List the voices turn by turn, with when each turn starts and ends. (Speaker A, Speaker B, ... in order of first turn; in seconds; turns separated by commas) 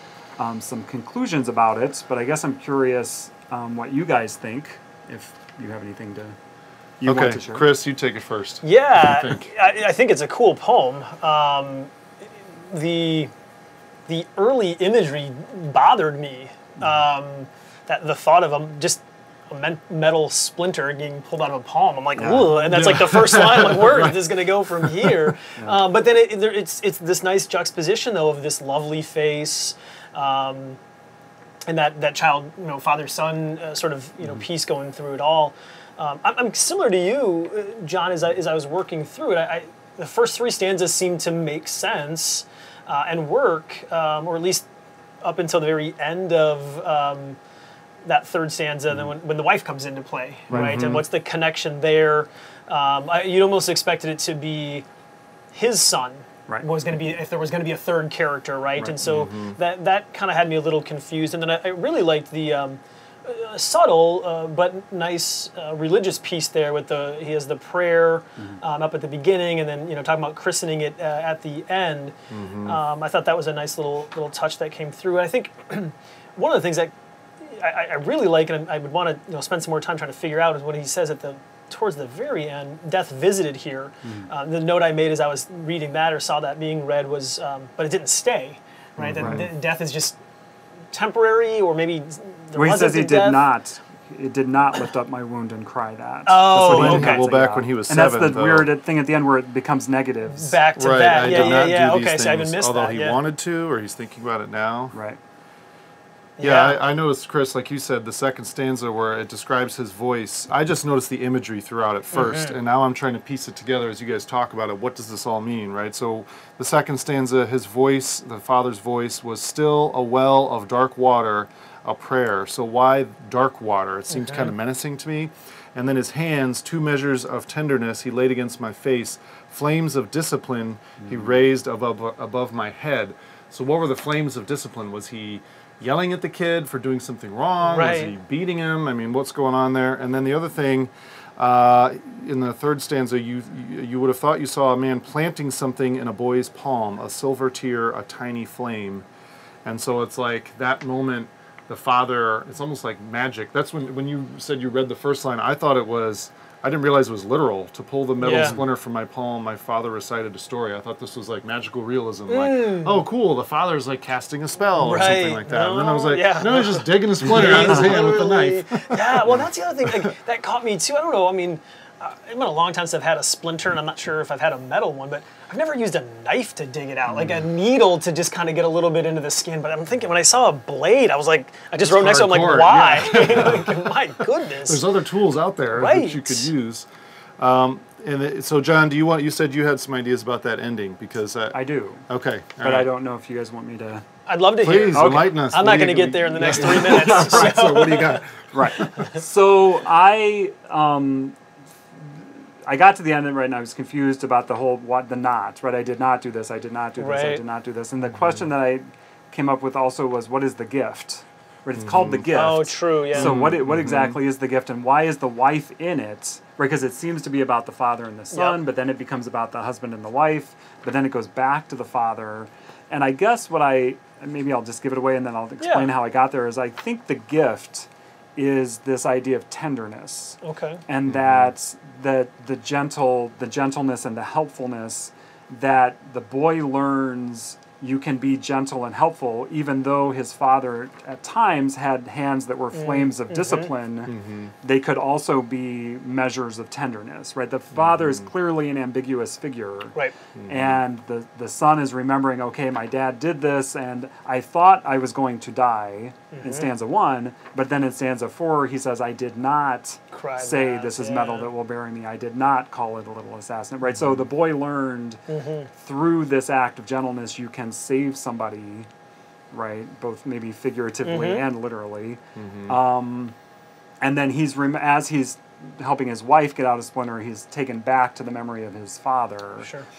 Speaker A: 0.4-6.3, Speaker A: 7.0-7.7, Speaker B: 7.0-9.5, Speaker C: 8.6-13.3, Speaker C: 14.1-30.8, Speaker A: 22.2-22.7, Speaker B: 22.7-25.3, Speaker A: 25.6-25.8, Speaker C: 31.7-44.7, Speaker C: 45.2-47.4, Speaker C: 48.0-54.8, Speaker B: 50.5-51.1, Speaker C: 55.5-72.1, Speaker B: 59.0-59.6, Speaker B: 72.3-72.8, Speaker C: 72.7-90.2, Speaker A: 84.0-84.3, Speaker B: 89.0-89.5, Speaker A: 89.2-89.5, Speaker C: 90.9-93.5, Speaker A: 92.5-100.6, Speaker C: 96.3-97.3, Speaker B: 96.6-98.7, Speaker C: 100.3-103.2, Speaker B: 100.8-105.0, Speaker A: 101.2-101.7, Speaker A: 104.9-105.2, Speaker C: 106.4-106.8, Speaker B: 106.4-149.1, Speaker C: 112.1-112.6, Speaker C: 124.1-124.5, Speaker A: 131.0-131.3, Speaker C: 137.6-138.2, Speaker B: 149.7-170.1, Speaker C: 158.2-158.6, Speaker C: 162.3-163.0, Speaker C: 164.7-184.9, Speaker A: 167.3-167.8, Speaker B: 177.1-177.4, Speaker B: 181.8-186.9, Speaker C: 185.7-186.5, Speaker B: 187.4-192.9, Speaker A: 191.5-192.1, Speaker A: 192.6-194.0, Speaker C: 194.3-198.2, Speaker B: 194.6-198.3, Speaker A: 194.9-195.4, Speaker A: 196.3-197.8, Speaker A: 198.5-201.3, Speaker A: 202.0-265.2, Speaker C: 207.0-207.4, Speaker B: 208.2-208.4, Speaker B: 211.8-212.3, Speaker C: 212.3-213.4, Speaker B: 213.1-214.2, Speaker C: 218.3-218.6, Speaker C: 225.6-225.9, Speaker C: 230.4-230.8, Speaker B: 231.1-231.5, Speaker C: 242.7-243.7, Speaker B: 244.1-244.5, Speaker B: 247.7-248.3, Speaker B: 250.3-250.8, Speaker C: 256.3-256.7, Speaker C: 260.1-261.5, Speaker B: 263.9-264.2, Speaker C: 265.3-265.7, Speaker A: 265.7-268.9, Speaker A: 269.5-273.4, Speaker C: 271.0-271.4, Speaker B: 272.4-272.8, Speaker A: 274.0-279.7, Speaker C: 279.6-279.9